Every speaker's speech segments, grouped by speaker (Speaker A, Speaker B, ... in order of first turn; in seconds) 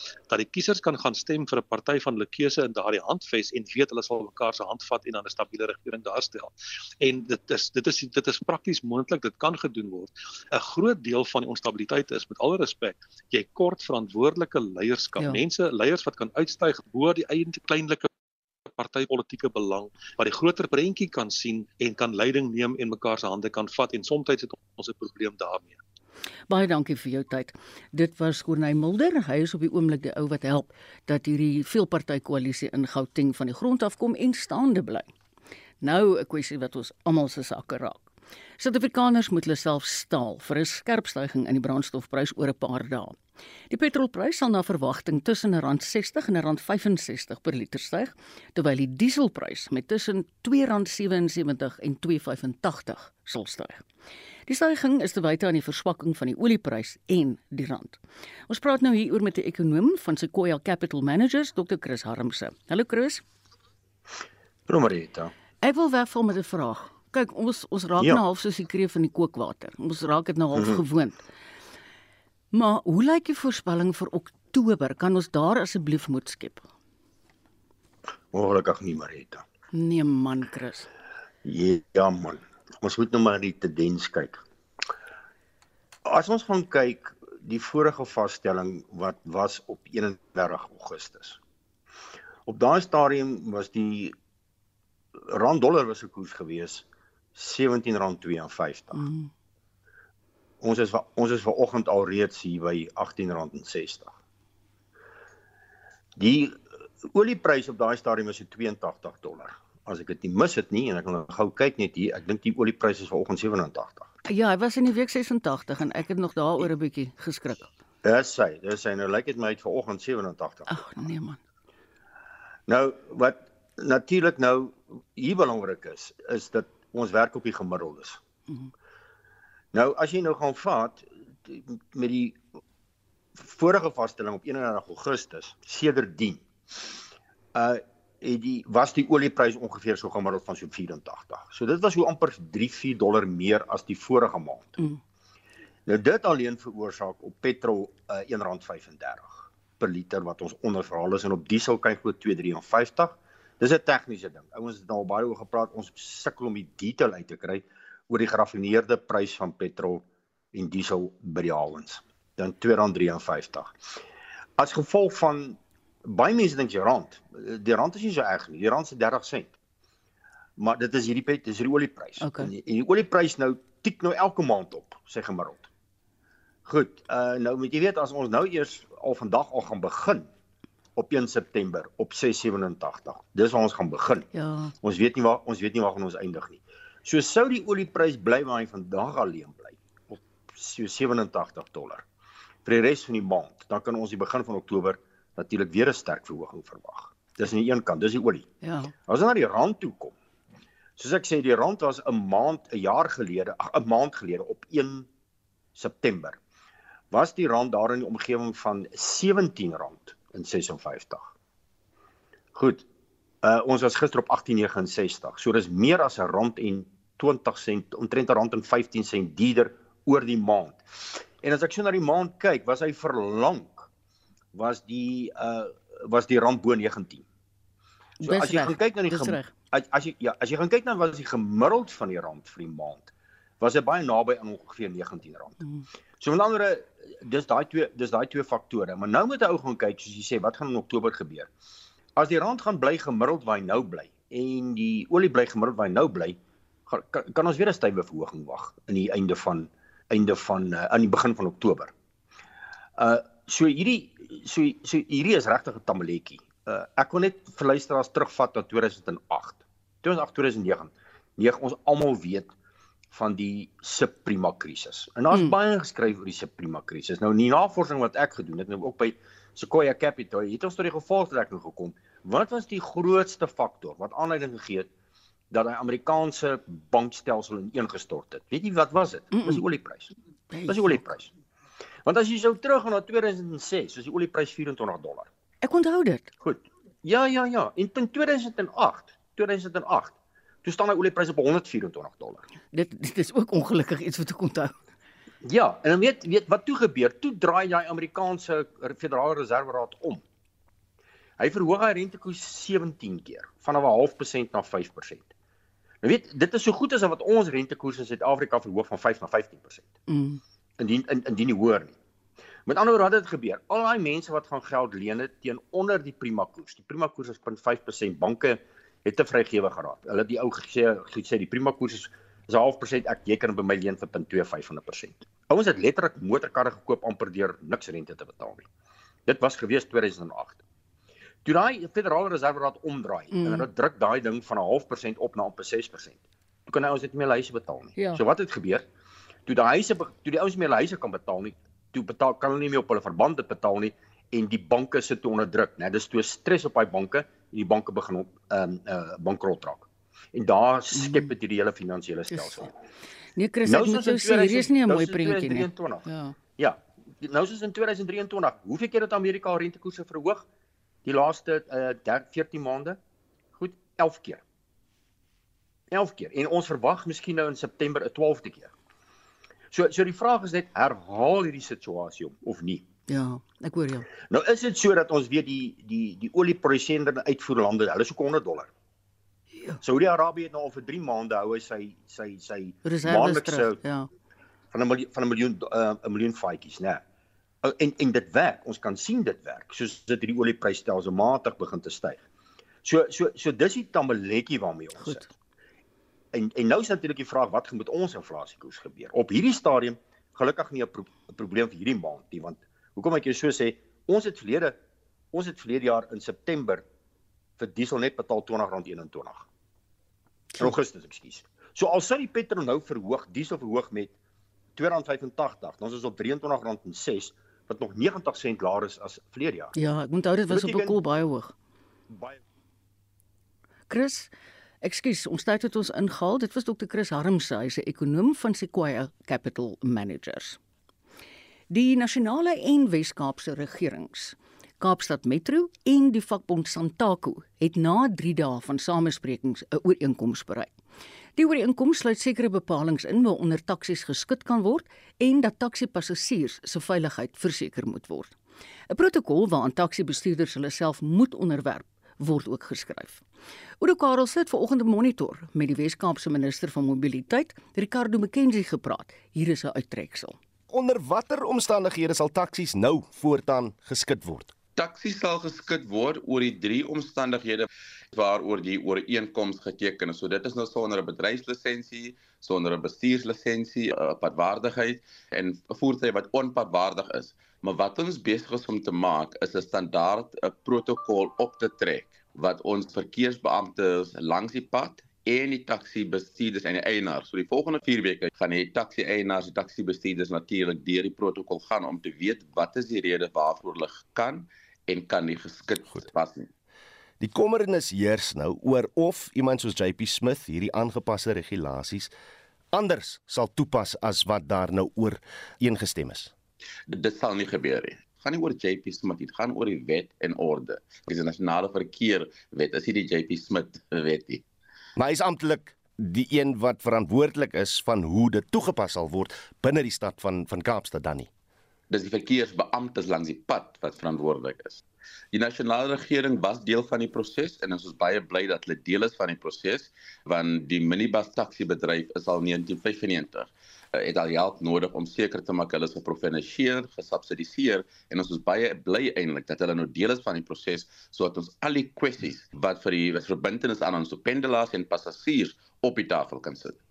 Speaker A: 0.3-18.1, 18.7-25.8
Speaker B: 26.5-35.1, 35.8-43.1, 43.7-53.8, 54.5-58.0, 58.5-63.2, 65.6-71.2, 72.5-76.7, 79.7-80.9, 98.9-99.3, 114.2-117.7, 120.7-121.4, 172.2-172.5, 184.3-184.7, 198.6-198.9, 228.2-229.5, 279.3-279.6, 280.5-281.0, 285.6-286.3, 292.7-294.8, 310.1-310.4, 333.3-333.7, 337.9-338.2, 350.9-351.3, 352.3-352.7, 353.4-356.4, 373.1-374.1, 382.9-384.1, 395.0-395.3, 419.7-421.5, 423.9-424.3, 424.8-430.6, 431.7-440.7, 441.4-448.3, 448.9-453.2, 453.8-460.4
Speaker C: 64.7-65.3, 70.5-70.8, 78.3-79.4, 81.4-84.4, 86.0-91.4, 92.5-94.1, 95.3-99.0, 100.6-104.1, 106.2-114.1, 118.0-120.7, 122.7-128.2, 129.7-132.4, 133.4-136.4, 137.5-144.8, 145.9-163.7, 164.6-169.5, 170.6-175.7, 176.7-180.3, 180.9-184.3, 184.8-192.0, 192.6-198.5, 199.1-200.1, 201.0-205.1, 205.8-206.4, 207.1-211.3, 212.5-212.8, 213.4-220.8, 221.4-223.9, 224.5-227.2, 228.2-235.6, 236.2-241.5, 242.2-251.9, 253.0-262.5, 263.1-274.9, 275.5-280.1, 280.7-281.3, 282.0-285.3, 286.4-292.4, 295.4-300.2, 301.4-305.3, 306.0-309.9, 310.8-311.9, 312.6-328.7, 329.3-330.6, 331.4-338.9, 339.4-352.7, 353.6-360.4, 361.1-363.0, 363.6-364.4, 365.9-368.7, 369.7-372.9, 374.3-378.7, 379.8-383.8, 384.7-387.0, 387.6-392.2, 392.8-395.2, 396.3-404.8, 405.3-406.8, 407.6-409.5, 410.6-414.1, 414.8-419.7, 420.5-421.0, 422.1-422.4
Speaker D: 460.7-464.5, 497.2-502.1, 502.7-506.3, 515.0-521.3
Speaker E: 464.8-496.5, 506.9-514.4, 521.9-524.8, 525.3-546.8